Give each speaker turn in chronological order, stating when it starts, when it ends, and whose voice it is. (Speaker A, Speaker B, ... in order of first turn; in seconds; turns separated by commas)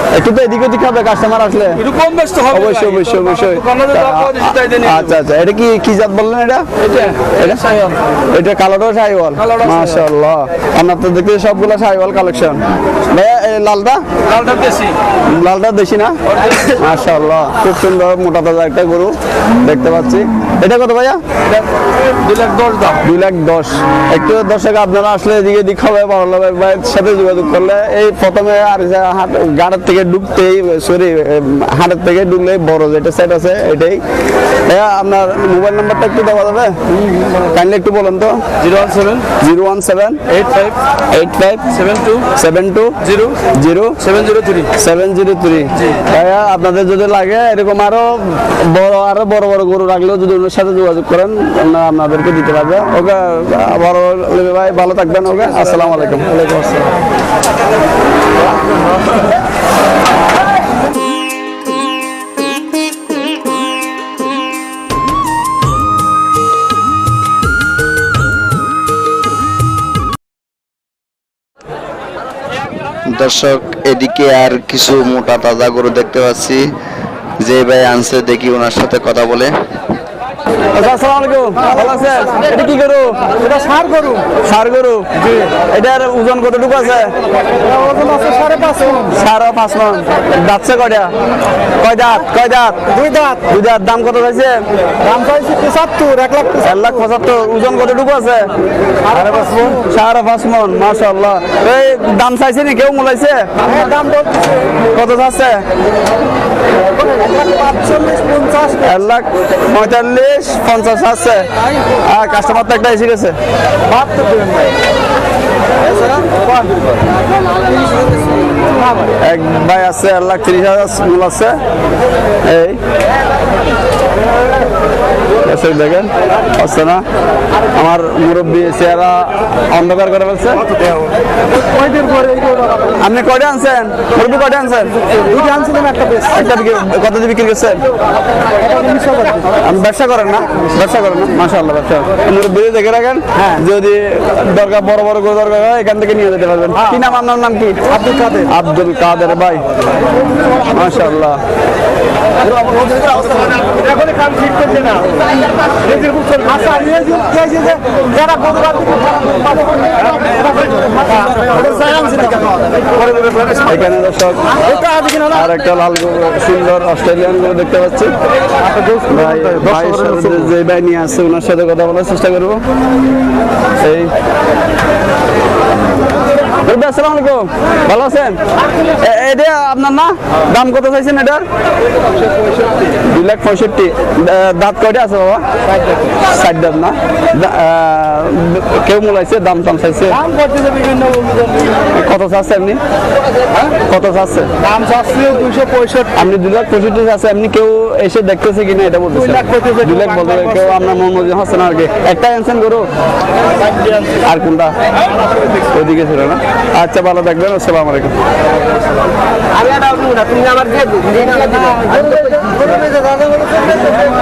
Speaker A: 0.1-1.8, Speaker B: 1.8-5.1, Speaker A: 2.5-6.7, Speaker B: 6.8-8.0, Speaker A: 7.3-7.6, Speaker A: 8.3-14.1, Speaker B: 9.4-10.0, Speaker B: 14.3-14.9, Speaker A: 15.3-16.2, Speaker A: 16.7-21.2, Speaker B: 22.2-23.0, Speaker A: 23.0-34.0, Speaker A: 34.7-36.8, Speaker A: 37.3-38.4, Speaker B: 38.6-39.3, Speaker A: 39.4-40.2, Speaker B: 40.3-40.8, Speaker A: 41.1-41.6, Speaker B: 41.8-42.2, Speaker A: 42.3-43.0, Speaker B: 43.1-43.3, Speaker A: 43.5-44.0, Speaker B: 44.0-44.7, Speaker A: 44.7-56.4, Speaker B: 56.5-56.8, Speaker C: 73.2-76.6, Speaker C: 77.4-79.5, Speaker A: 80.8-83.2, Speaker A: 84.4-85.1, Speaker A: 85.7-87.1, Speaker A: 88.9-91.1, Speaker A: 91.8-92.8, Speaker A: 93.4-94.6, Speaker B: 95.5-96.3, Speaker A: 96.4-98.5, Speaker A: 99.7-103.7, Speaker A: 104.9-105.6, Speaker A: 108.7-111.5, Speaker A: 112.1-113.4, Speaker A: 119.2-121.6, Speaker A: 122.4-122.8, Speaker A: 125.5-127.0, Speaker A: 127.8-130.6, Speaker A: 133.0-135.0, Speaker A: 136.2-137.8, Speaker A: 139.5-147.8, Speaker A: 148.4-149.7, Speaker A: 150.7-151.4, Speaker A: 163.6-164.5, Speaker A: 165.2-168.1, Speaker A: 169.1-172.6, Speaker A: 173.8-174.1, Speaker A: 176.7-178.4, Speaker A: 179.0-181.4, Speaker A: 183.0-185.4, Speaker A: 186.2-190.3, Speaker B: 190.6-191.3, Speaker A: 191.9-192.8, Speaker A: 193.9-194.5, Speaker B: 194.8-196.0, Speaker A: 196.1-202.9, Speaker A: 204.2-204.8, Speaker A: 205.7-208.2